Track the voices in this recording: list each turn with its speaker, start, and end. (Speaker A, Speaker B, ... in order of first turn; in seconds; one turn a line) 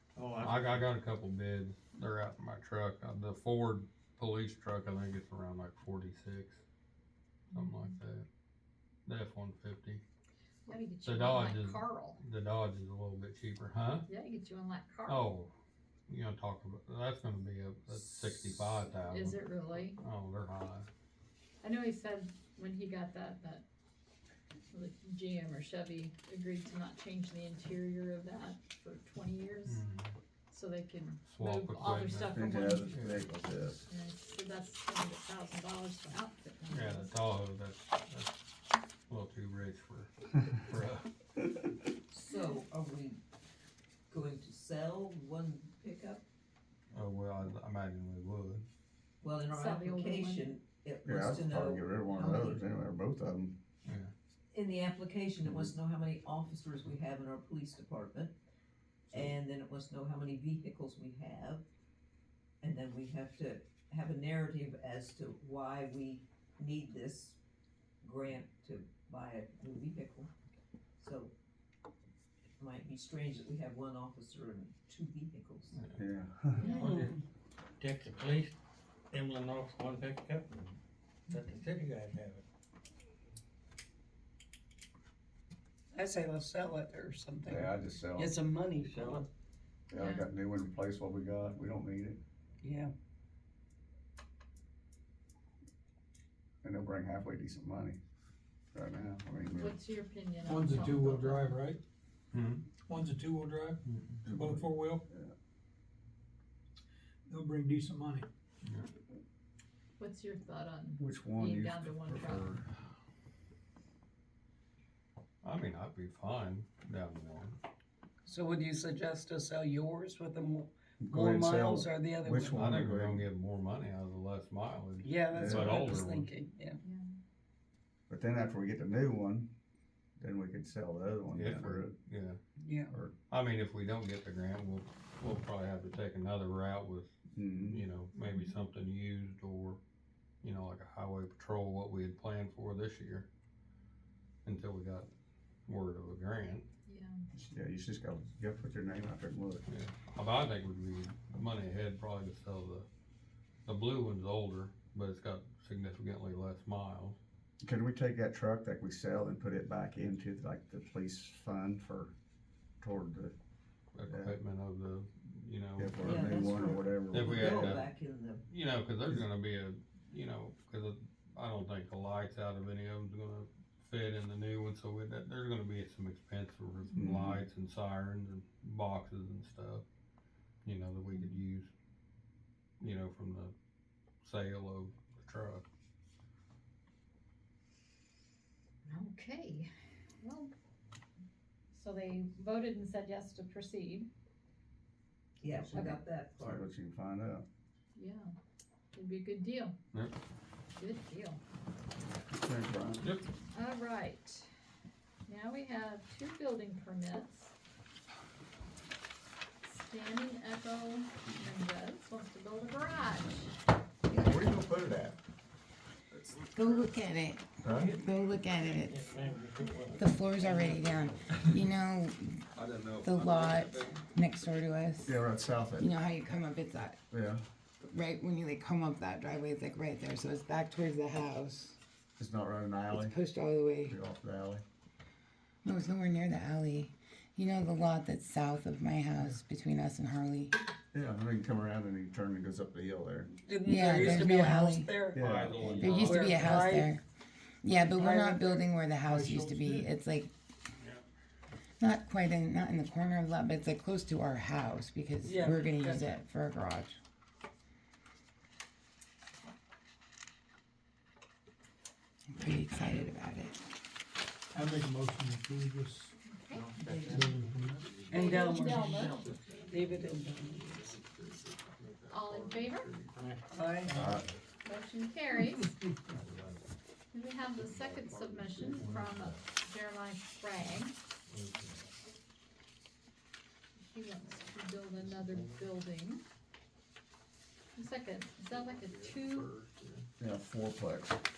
Speaker A: 0.1-0.9
Speaker B: 0.4-6.6
Speaker C: 7.5-7.9
Speaker B: 7.5-8.2
Speaker B: 9.1-10.0
Speaker C: 10.7-12.2
Speaker B: 11.0-14.1
Speaker C: 14.1-15.3
Speaker B: 15.1-15.5
Speaker B: 16.1-20.9
Speaker C: 19.0-20.0
Speaker C: 21.6-23.6
Speaker C: 24.7-29.8
Speaker B: 29.6-30.1
Speaker C: 30.5-32.9
Speaker B: 31.2-32.4
Speaker D: 32.3-33.9
Speaker B: 32.9-33.2
Speaker C: 33.9-37.1
Speaker B: 36.7-38.4
Speaker B: 39.1-41.1
Speaker E: 42.1-43.2
Speaker C: 42.3-42.6
Speaker E: 44.1-46.2
Speaker B: 46.9-48.6
Speaker E: 49.2-52.7
Speaker C: 49.5-50.5
Speaker D: 51.0-53.6
Speaker B: 53.8-54.1
Speaker E: 54.5-58.4
Speaker D: 55.4-55.7
Speaker E: 59.1-61.6
Speaker E: 62.6-67.4
Speaker E: 68.0-70.3
Speaker E: 71.0-71.3
Speaker E: 72.6-75.8
Speaker B: 75.7-76.0
Speaker D: 76.0-76.7
Speaker C: 76.5-76.9
Speaker F: 76.7-77.2
Speaker A: 76.8-77.2
Speaker A: 77.8-78.5
Speaker A: 79.1-80.6
Speaker A: 81.3-82.4
Speaker F: 85.9-89.3
Speaker D: 87.5-88.3
Speaker A: 88.8-89.2
Speaker D: 89.9-92.2
Speaker C: 89.9-90.3
Speaker F: 92.6-92.9
Speaker D: 96.6-98.0
Speaker D: 98.7-99.8
Speaker C: 99.5-101.6
Speaker G: 100.4-101.8
Speaker B: 102.3-102.6
Speaker G: 102.8-105.0
Speaker B: 103.9-104.2
Speaker D: 104.2-105.3
Speaker G: 107.3-108.3
Speaker B: 108.6-108.9
Speaker C: 110.0-112.5
Speaker D: 111.0-112.6
Speaker B: 115.4-117.6
Speaker F: 118.2-122.6
Speaker D: 121.0-123.3
Speaker B: 122.5-126.3
Speaker F: 125.0-126.8
Speaker D: 125.3-125.8
Speaker C: 126.8-127.1
Speaker D: 128.1-129.5
Speaker D: 130.2-131.9
Speaker B: 131.3-132.4
Speaker F: 132.6-132.9
Speaker B: 133.3-137.1
Speaker D: 137.3-137.8
Speaker B: 137.7-139.8
Speaker C: 138.2-138.5
Speaker B: 140.4-143.3
Speaker B: 144.4-145.1
Speaker B: 145.7-146.7
Speaker C: 146.8-147.2
Speaker D: 147.3-149.6
Speaker B: 149.7-152.9
Speaker B: 153.7-157.2
Speaker D: 157.6-162.1
Speaker D: 162.8-163.3
Speaker B: 163.9-166.4
Speaker D: 164.0-164.3
Speaker D: 165.8-167.8
Speaker E: 166.0-168.4
Speaker B: 167.1-167.9
Speaker B: 168.5-179.8
Speaker C: 176.9-177.2
Speaker D: 176.9-177.4
Speaker B: 180.6-181.7
Speaker C: 181.1-181.4
Speaker B: 182.8-183.5
Speaker B: 184.2-185.6
Speaker C: 188.8-189.7
Speaker C: 190.2-190.5
Speaker C: 191.7-194.1
Speaker E: 195.4-196.7
Speaker D: 195.5-197.4
Speaker C: 197.9-198.3
Speaker C: 198.9-199.7
Speaker C: 200.8-201.4
Speaker D: 202.3-203.0
Speaker C: 203.5-204.5
Speaker C: 205.3-207.5
Speaker C: 209.7-213.5
Speaker D: 214.1-214.4
Speaker B: 214.3-215.1
Speaker H: 216.5-219.0
Speaker D: 217.6-217.9
Speaker A: 218.9-220.1
Speaker H: 219.9-222.5
Speaker A: 220.7-221.1
Speaker B: 222.5-224.0
Speaker H: 223.0-225.2
Speaker D: 225.0-225.9
Speaker H: 225.8-227.0
Speaker D: 227.1-227.4
Speaker H: 227.8-231.8
Speaker D: 232.2-233.2
Speaker H: 232.9-234.0
Speaker D: 233.8-234.6
Speaker H: 235.6-240.5
Speaker D: 240.9-243.3
Speaker F: 243.4-245.2
Speaker H: 243.6-244.9
Speaker D: 245.1-246.1
Speaker B: 245.2-246.7
Speaker H: 245.6-247.0
Speaker F: 245.9-246.9
Speaker H: 247.6-250.3
Speaker F: 247.7-248.7
Speaker G: 249.0-249.9
Speaker B: 250.8-251.0
Speaker H: 251.8-256.9
Speaker F: 255.2-256.1
Speaker H: 262.3-263.6
Speaker G: 264.5-266.1
Speaker C: 266.2-266.8
Speaker A: 266.5-270.2
Speaker F: 266.8-267.4
Speaker G: 267.1-267.9
Speaker B: 267.9-273.1
Speaker F: 268.1-270.9
Speaker C: 268.1-269.2
Speaker C: 272.1-273.0
Speaker A: 273.1-273.4
Speaker F: 273.5-273.9
Speaker G: 273.8-274.3
Speaker D: 273.9-274.3
Speaker C: 274.6-275.8
Speaker B: 276.1-276.6
Speaker A: 276.2-276.6
Speaker C: 277.1-281.0
Speaker A: 277.6-279.2
Speaker B: 277.7-279.4
Speaker B: 281.3-281.8
Speaker C: 283.8-286.2
Speaker A: 285.0-285.6
Speaker C: 287.8-289.5
Speaker B: 288.5-290.1
Speaker D: 290.2-291.2